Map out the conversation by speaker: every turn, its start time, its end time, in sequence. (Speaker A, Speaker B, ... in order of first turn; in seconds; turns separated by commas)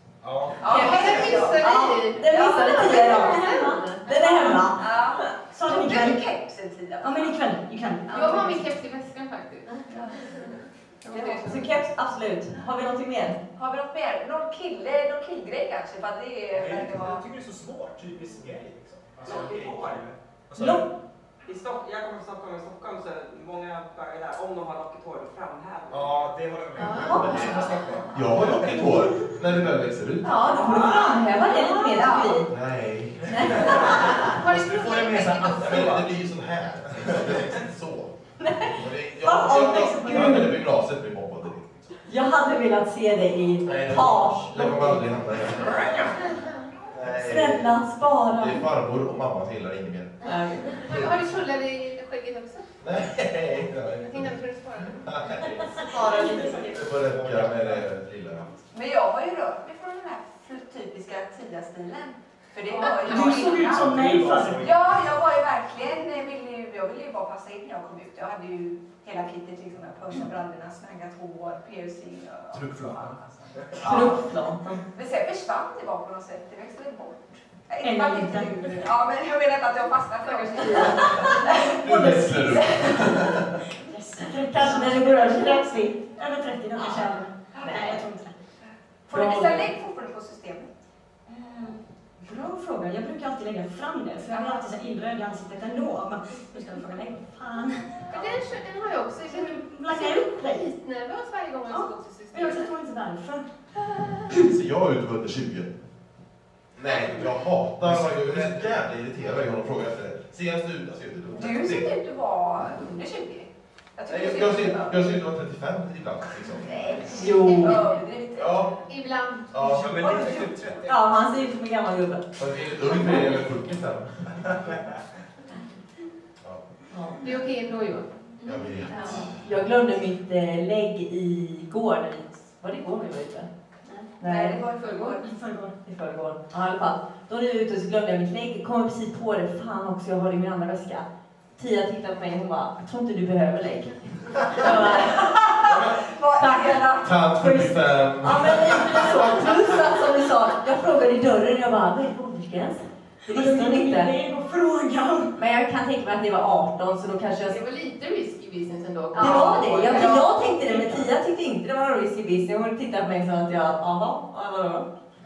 Speaker A: 0.2-1.4, Speaker B: 0.6-3.6, Speaker C: 0.6-3.8, Speaker D: 0.7-5.3, Speaker E: 3.4-4.8, Speaker B: 4.7-7.4, Speaker E: 5.5-6.3, Speaker E: 7.0-8.6, Speaker B: 8.1-8.6, Speaker C: 8.1-9.8, Speaker B: 9.9-10.5, Speaker C: 11.0-11.6, Speaker B: 11.1-11.5, Speaker D: 11.3-13.4, Speaker B: 13.6-17.2, Speaker A: 16.5-20.9, Speaker F: 19.2-20.1, Speaker D: 20.6-20.8, Speaker F: 21.4-26.3, Speaker A: 25.9-28.8, Speaker C: 26.8-27.2, Speaker D: 27.0-27.5, Speaker G: 27.1-30.5, Speaker D: 30.2-32.5, Speaker B: 30.6-31.2, Speaker E: 31.5-32.2, Speaker B: 31.7-32.4, Speaker G: 32.5-34.0, Speaker D: 33.3-34.3, Speaker A: 33.3-36.1, Speaker C: 34.1-35.9, Speaker G: 35.5-38.1, Speaker D: 38.4-40.6, Speaker G: 38.6-41.8, Speaker E: 39.2-40.6, Speaker D: 42.1-45.0, Speaker G: 43.6-46.0, Speaker G: 46.9-47.7, Speaker D: 47.2-48.6, Speaker G: 48.3-51.3, Speaker D: 50.2-50.8, Speaker C: 50.8-52.7, Speaker G: 52.8-55.9, Speaker C: 54.0-55.4, Speaker B: 56.0-56.3, Speaker G: 56.6-58.5, Speaker A: 56.7-57.8, Speaker B: 58.7-64.0, Speaker E: 62.7-64.7, Speaker A: 63.2-65.1, Speaker B: 64.6-74.2, Speaker A: 72.5-74.1, Speaker D: 73.8-74.8, Speaker B: 74.9-81.8, Speaker E: 77.8-78.8, Speaker D: 80.6-81.5, Speaker E: 80.8-82.8, Speaker G: 81.4-83.5, Speaker B: 82.3-83.1, Speaker E: 83.8-88.3, Speaker D: 84.5-86.0, Speaker D: 86.7-87.0, Speaker B: 87.5-88.0, Speaker B: 89.1-90.7, Speaker D: 89.1-89.6, Speaker E: 89.2-89.6, Speaker E: 91.3-98.2, Speaker C: 98.1-102.7, Speaker E: 99.2-100.7, Speaker E: 101.7-103.4, Speaker G: 104.3-105.7, Speaker G: 106.7-111.9, Speaker A: 107.8-108.7, Speaker B: 111.3-115.2, Speaker G: 114.1-117.1, Speaker B: 116.7-118.7, Speaker D: 117.1-117.8, Speaker C: 117.2-118.0, Speaker G: 118.3-118.7, Speaker C: 118.9-119.6, Speaker G: 119.5-120.3, Speaker A: 119.6-121.0, Speaker B: 120.2-120.5, Speaker D: 120.8-122.2, Speaker G: 122.4-124.8, Speaker D: 126.9-127.2, Speaker C: 127.2-128.1, Speaker G: 128.4-129.4, Speaker D: 129.0-133.5, Speaker E: 133.8-134.1, Speaker D: 134.2-134.6, Speaker B: 134.2-135.3, Speaker E: 134.8-135.7, Speaker D: 135.8-145.7, Speaker B: 144.6-147.2, Speaker G: 145.6-146.0, Speaker D: 146.3-154.1, Speaker G: 147.0-149.7, Speaker E: 153.3-155.3, Speaker D: 155.3-157.6, Speaker C: 157.4-160.2, Speaker B: 159.1-160.1, Speaker D: 159.2-164.9, Speaker E: 159.9-161.1